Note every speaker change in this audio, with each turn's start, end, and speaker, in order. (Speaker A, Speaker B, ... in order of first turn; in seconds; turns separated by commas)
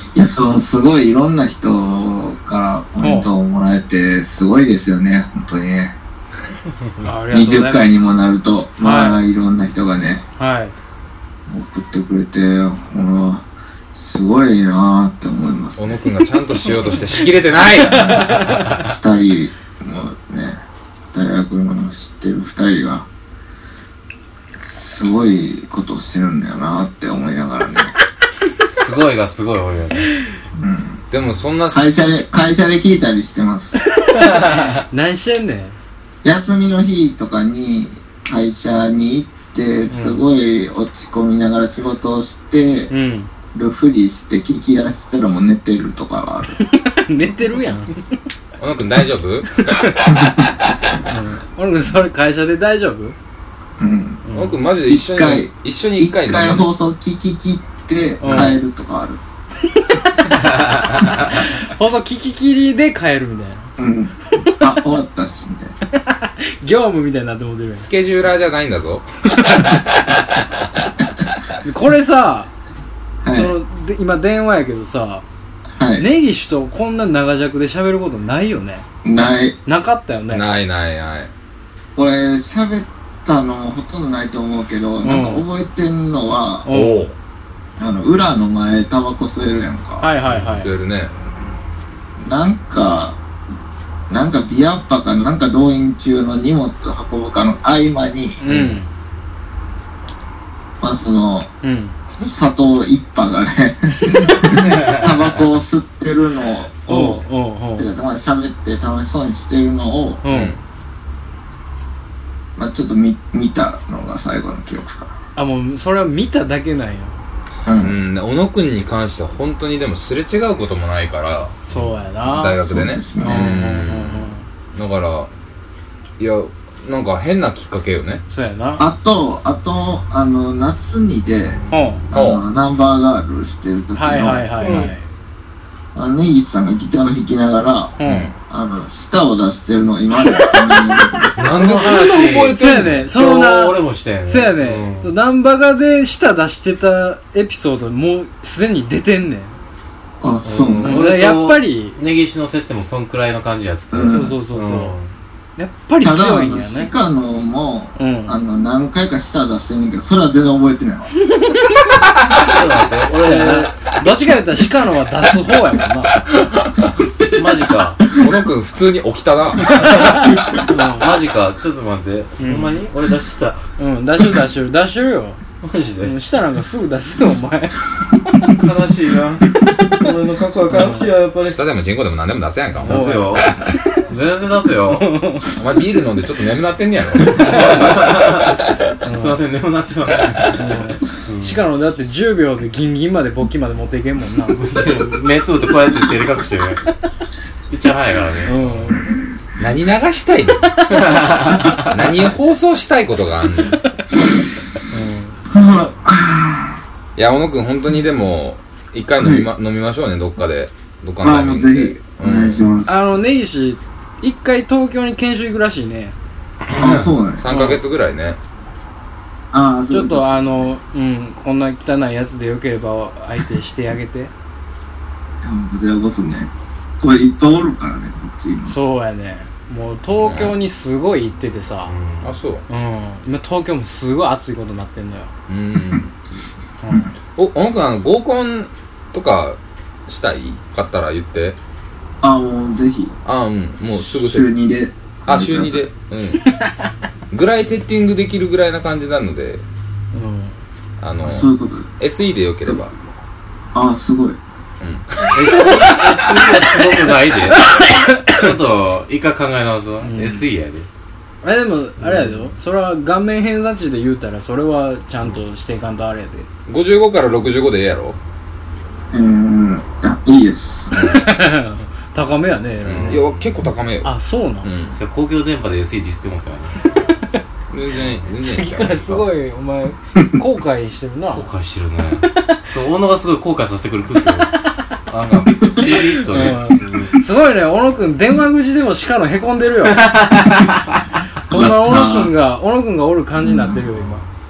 Speaker A: 0.1-5.9, Speaker B: 3.0-3.3, Speaker B: 7.0-8.0, Speaker A: 7.3-10.2, Speaker B: 8.8-9.2, Speaker B: 10.4-10.7, Speaker A: 11.5-15.9, Speaker C: 15.8-18.5, Speaker B: 18.1-18.6, Speaker A: 18.7-20.6, Speaker A: 21.1-23.1, Speaker A: 24.7-27.9, Speaker D: 28.6-30.1, Speaker A: 30.6-31.0, Speaker C: 31.1-31.9, Speaker A: 31.7-33.7, Speaker B: 33.9-35.8, Speaker D: 34.5-34.8, Speaker A: 36.2-42.9, Speaker B: 39.9-40.2, Speaker B: 42.9-43.3, Speaker A: 43.5-46.6, Speaker B: 46.6-48.0, Speaker C: 48.6-50.1, Speaker B: 49.7-50.1, Speaker A: 50.1-50.5, Speaker B: 51.0-53.1, Speaker A: 53.8-54.2, Speaker B: 54.2-54.6, Speaker C: 54.3-56.7, Speaker A: 54.9-59.2, Speaker B: 58.2-58.6, Speaker C: 58.2-58.5, Speaker B: 61.2-63.7, Speaker A: 63.8-65.8, Speaker B: 66.0-67.9, Speaker C: 67.8-70.2, Speaker B: 69.4-69.7, Speaker B: 71.6-72.5, Speaker A: 73.2-73.5, Speaker B: 73.3-75.2, Speaker A: 75.8-76.0, Speaker B: 76.0-78.8, Speaker A: 79.0-79.6, Speaker B: 79.7-80.5, Speaker C: 80.3-81.3, Speaker A: 82.0-86.7, Speaker B: 85.0-85.4, Speaker B: 86.6-87.1, Speaker C: 86.7-87.1, Speaker A: 87.8-90.1, Speaker B: 90.0-90.7, Speaker C: 90.2-91.1, Speaker A: 92.2-93.2, Speaker A: 94.1-98.4, Speaker B: 98.4-98.9, Speaker C: 98.5-98.8, Speaker A: 100.8-101.5, Speaker B: 101.6-102.0, Speaker A: 102.2-107.2, Speaker B: 106.9-107.9, Speaker A: 107.8-110.2, Speaker B: 110.2-110.6, Speaker C: 110.3-110.6, Speaker A: 112.5-115.1, Speaker B: 115.3-117.2, Speaker A: 117.7-118.0, Speaker C: 117.8-125.3, Speaker B: 121.7-122.6, Speaker A: 122.6-123.6, Speaker B: 123.2-124.5, Speaker C: 126.2-128.2, Speaker B: 128.3-128.8, Speaker A: 128.8-134.9, Speaker B: 131.7-132.0, Speaker C: 132.1-132.4, Speaker B: 133.9-135.0, Speaker C: 134.6-134.9, Speaker A: 135.9-141.3, Speaker B: 138.0-138.3, Speaker C: 138.0-138.3, Speaker D: 141.4-145.1, Speaker C: 141.4-143.0, Speaker B: 141.7-149.6, Speaker A: 150.2-151.0, Speaker D: 150.4-155.1, Speaker B: 150.8-152.0, Speaker A: 153.9-154.3, Speaker B: 154.1-154.9, Speaker B: 155.6-156.9, Speaker A: 156.0-161.1, Speaker B: 157.9-158.3, Speaker D: 162.3-163.7, Speaker B: 163.2-166.2, Speaker D: 166.9-168.0, Speaker C: 168.1-169.7, Speaker D: 169.8-173.6, Speaker B: 169.8-171.1, Speaker B: 172.4-172.8, Speaker B: 173.8-175.4, Speaker D: 175.6-176.1, Speaker B: 176.0-177.8, Speaker D: 178.4-181.6, Speaker B: 180.7-181.1, Speaker C: 181.4-183.6, Speaker D: 182.8-185.2, Speaker B: 182.8-183.6, Speaker B: 184.9-185.5, Speaker C: 185.5-188.7, Speaker D: 187.4-191.6, Speaker B: 189.0-189.4, Speaker B: 190.5-195.1, Speaker D: 194.5-196.8, Speaker D: 197.7-198.6, Speaker B: 198.4-199.0, Speaker C: 199.6-200.7, Speaker D: 200.9-201.8, Speaker C: 201.8-203.8, Speaker B: 204.9-205.6, Speaker A: 205.5-206.8, Speaker C: 207.2-212.6, Speaker A: 209.2-209.5, Speaker A: 211.2-212.9, Speaker B: 212.8-216.1, Speaker D: 216.7-217.1, Speaker A: 216.7-217.4, Speaker C: 217.4-218.4, Speaker B: 217.5-217.8, Speaker A: 219.5-220.3, Speaker B: 219.9-224.3, Speaker A: 225.4-228.7, Speaker B: 228.7-231.9, Speaker C: 230.2-230.5, Speaker D: 231.9-232.3, Speaker C: 232.2-232.6, Speaker B: 232.7-235.3, Speaker C: 235.5-236.2, Speaker B: 236.8-237.1, Speaker C: 237.3-241.6, Speaker A: 242.2-243.1, Speaker C: 243.2-244.5, Speaker A: 244.0-245.9, Speaker C: 245.3-246.4, Speaker C: 247.3-249.6, Speaker B: 250.1-250.6, Speaker C: 251.0-252.9, Speaker A: 251.2-251.9, Speaker A: 253.7-254.4, Speaker C: 254.8-255.4, Speaker D: 255.3-260.9, Speaker B: 257.6-258.4, Speaker B: 260.0-260.4, Speaker B: 261.4-266.5, Speaker C: 266.7-268.2, Speaker A: 269.1-270.9, Speaker C: 270.9-271.3, Speaker B: 270.9-273.2, Speaker C: 272.8-274.1, Speaker D: 272.9-273.4, Speaker B: 274.0-274.7, Speaker C: 274.6-275.0, Speaker D: 275.0-276.8, Speaker B: 276.9-277.4, Speaker C: 277.7-279.2, Speaker B: 278.4-281.5, Speaker D: 281.3-284.5, Speaker D: 285.1-287.1, Speaker B: 285.8-290.1, Speaker D: 289.9-290.9, Speaker B: 291.5-294.2, Speaker A: 291.5-292.3, Speaker A: 293.4-293.8